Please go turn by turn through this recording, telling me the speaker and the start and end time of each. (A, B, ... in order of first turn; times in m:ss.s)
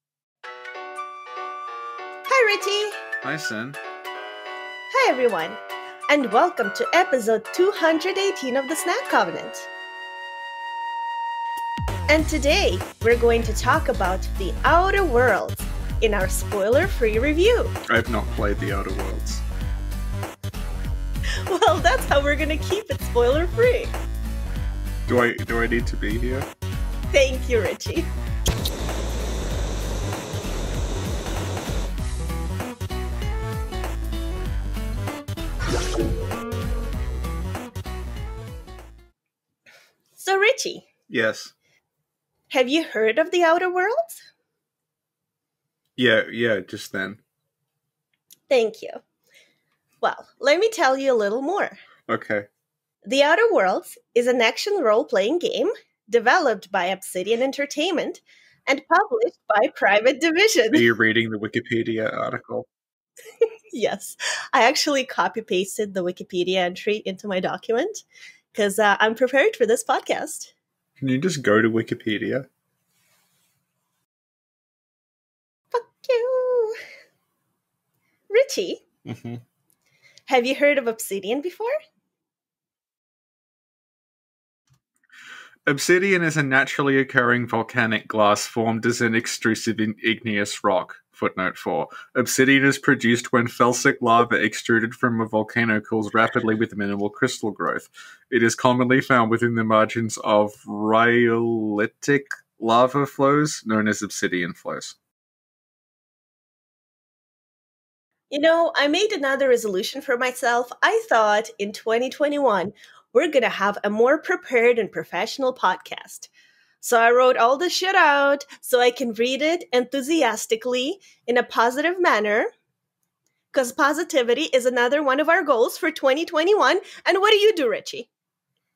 0:02.2-0:03.0 A
0:03.2-0:03.8 B
0:04.9-0:09.7 A
0:12.1-0:17.7 A
0:17.9-0:19.4 B
0:21.5-0:23.9 A
0:25.1-0:26.5 B
0:27.1-0:28.1 A
0:40.2-0:40.9 A
0:41.1-0:41.5 B
0:42.5-0:44.2 A
0:46.0-0:47.2 B
0:48.5-0:49.0 A
0:50.0-0:51.8 A
0:52.1-0:52.5 B
0:53.0-1:00.8 A
1:00.7-1:02.7 B
1:03.7-1:10.5 A
1:11.0-1:12.4 B
1:15.7-1:16.8 A
1:18.3-1:18.8 A
1:19.0-1:19.4 B
1:20.3-1:21.7 A
1:25.6-1:45.0 B
1:48.3-1:56.3 A
1:56.8-2:02.5 A
2:03.5-2:08.1 A